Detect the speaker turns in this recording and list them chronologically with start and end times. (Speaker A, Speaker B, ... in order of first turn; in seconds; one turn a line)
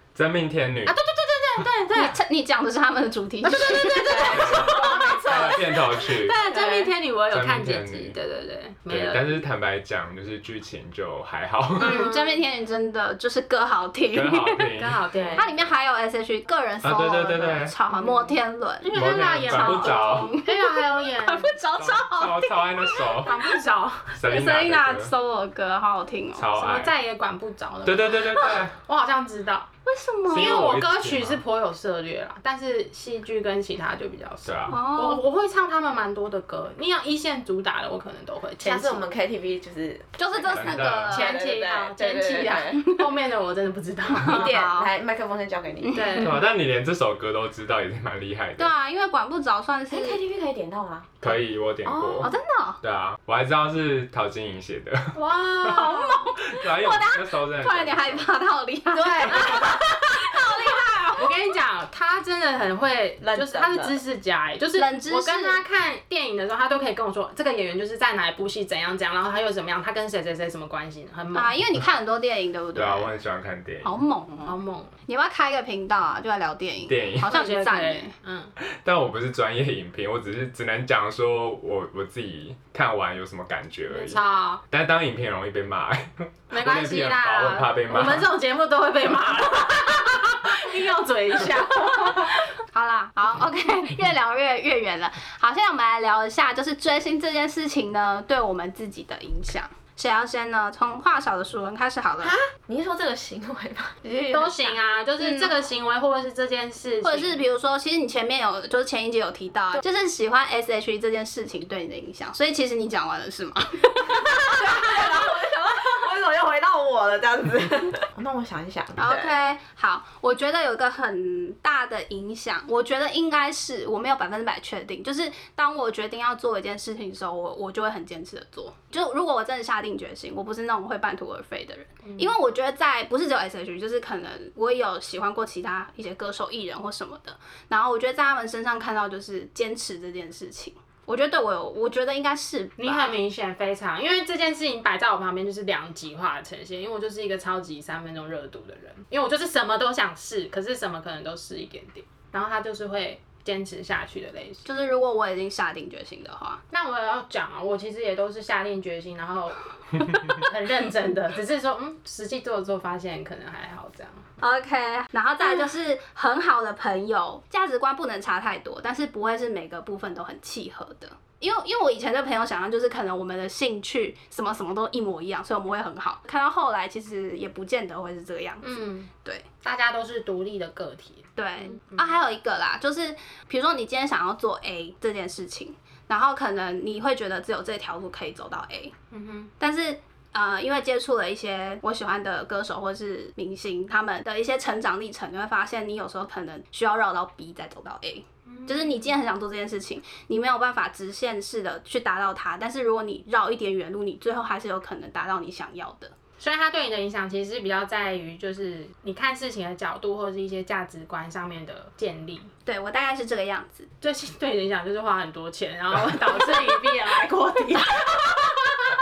Speaker A: 0.1-1.0
Speaker B: 0.8-2.1
Speaker C: 1.9-5.3
Speaker B: 3.4-9.4
Speaker D: 4.0-5.2
Speaker A: 4.2-6.3
Speaker D: 6.5-6.9
Speaker A: 7.3-8.2
Speaker A: 8.9-12.1
Speaker C: 11.8-14.7
Speaker B: 11.8-12.4
Speaker A: 14.1-15.0
Speaker B: 14.7-15.5
Speaker D: 15.1-15.4
Speaker C: 15.3-23.5
Speaker A: 16.8-17.8
Speaker B: 17.9-21.5
Speaker A: 18.9-20.4
Speaker A: 21.8-23.3
Speaker B: 23.2-24.1
Speaker A: 24.1-25.1
Speaker C: 24.2-26.5
Speaker A: 26.4-26.9
Speaker B: 26.5-29.7
Speaker A: 27.8-28.8
Speaker C: 29.9-30.6
Speaker A: 30.3-31.4
Speaker B: 30.3-39.0
Speaker A: 34.4-34.8
Speaker C: 34.7-35.2
Speaker D: 38.6-42.9
Speaker C: 40.2-41.3
Speaker A: 40.5-41.2
Speaker B: 41.1-44.5
Speaker C: 42.7-43.1
Speaker D: 44.1-46.2
Speaker C: 44.1-44.9
Speaker C: 45.8-46.3
Speaker B: 45.9-46.4
Speaker A: 46.2-48.7
Speaker C: 48.6-50.2
Speaker D: 49.9-52.3
Speaker A: 51.2-58.3
Speaker C: 52.2-52.8
Speaker B: 55.1-56.3
Speaker C: 55.6-61.3
Speaker D: 58.9-60.7
Speaker B: 59.0-59.6
Speaker B: 61.2-71.5
Speaker D: 63.2-64.0
Speaker C: 64.8-65.6
Speaker C: 71.3-73.1
Speaker A: 72.7-74.0
Speaker C: 73.8-74.5
Speaker B: 74.4-74.9
Speaker C: 75.1-78.1
Speaker A: 76.9-77.3
Speaker B: 77.2-78.5
Speaker A: 78.6-88.3
Speaker B: 83.9-84.6
Speaker B: 86.5-92.4
Speaker C: 92.7-102.3
Speaker D: 102.2-104.8
Speaker B: 104.3-107.4
Speaker C: 105.2-105.5
Speaker C: 107.0-114.3
Speaker D: 114.1-119.3
Speaker C: 119.0-143.1
Speaker B: 132.0-132.3
Speaker B: 142.8-154.7
Speaker C: 154.6-156.6
Speaker B: 156.7-164.2
Speaker C: 164.4-179.4
Speaker B: 178.6-179.1
Speaker B: 179.6-182.1
Speaker C: 181.3-188.9
Speaker B: 189.1-189.5
Speaker C: 189.6-206.1
Speaker B: 198.4-199.1
Speaker B: 206.4-212.5
Speaker C: 212.7-213.9
Speaker B: 214.0-218.6